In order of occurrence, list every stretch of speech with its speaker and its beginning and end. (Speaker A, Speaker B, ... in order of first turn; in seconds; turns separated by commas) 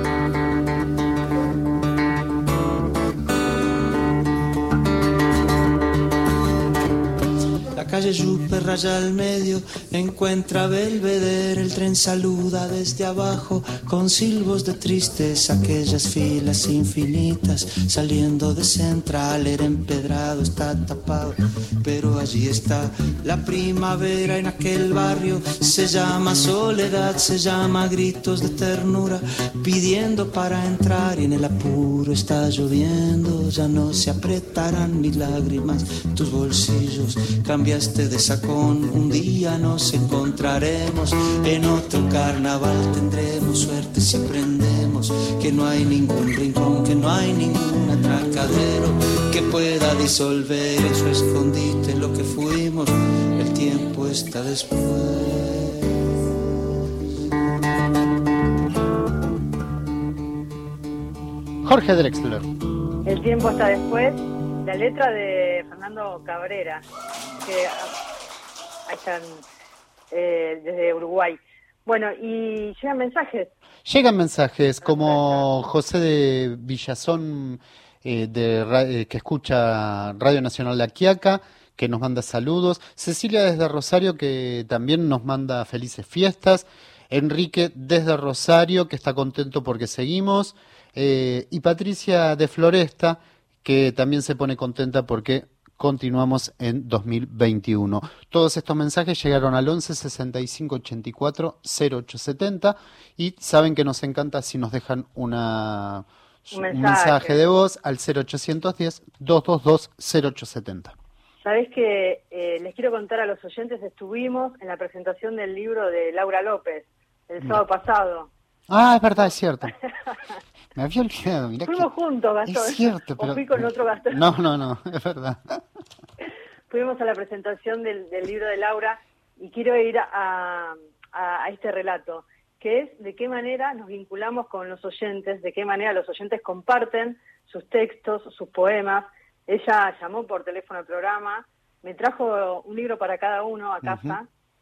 Speaker A: 7.7-56.1, Speaker B: 61.6-62.5, Speaker C: 63.0-66.8, Speaker C: 67.4-67.9, Speaker C: 68.9-69.4, Speaker C: 70.1-73.5, Speaker B: 73.8-111.0, Speaker C: 75.0-75.3, Speaker C: 106.5-107.4, Speaker C: 111.4-118.3, Speaker B: 118.7-119.8, Speaker B: 120.8-121.9, Speaker C: 121.7-124.2, Speaker B: 122.4-125.6, Speaker C: 126.7-144.3, Speaker B: 143.8-144.2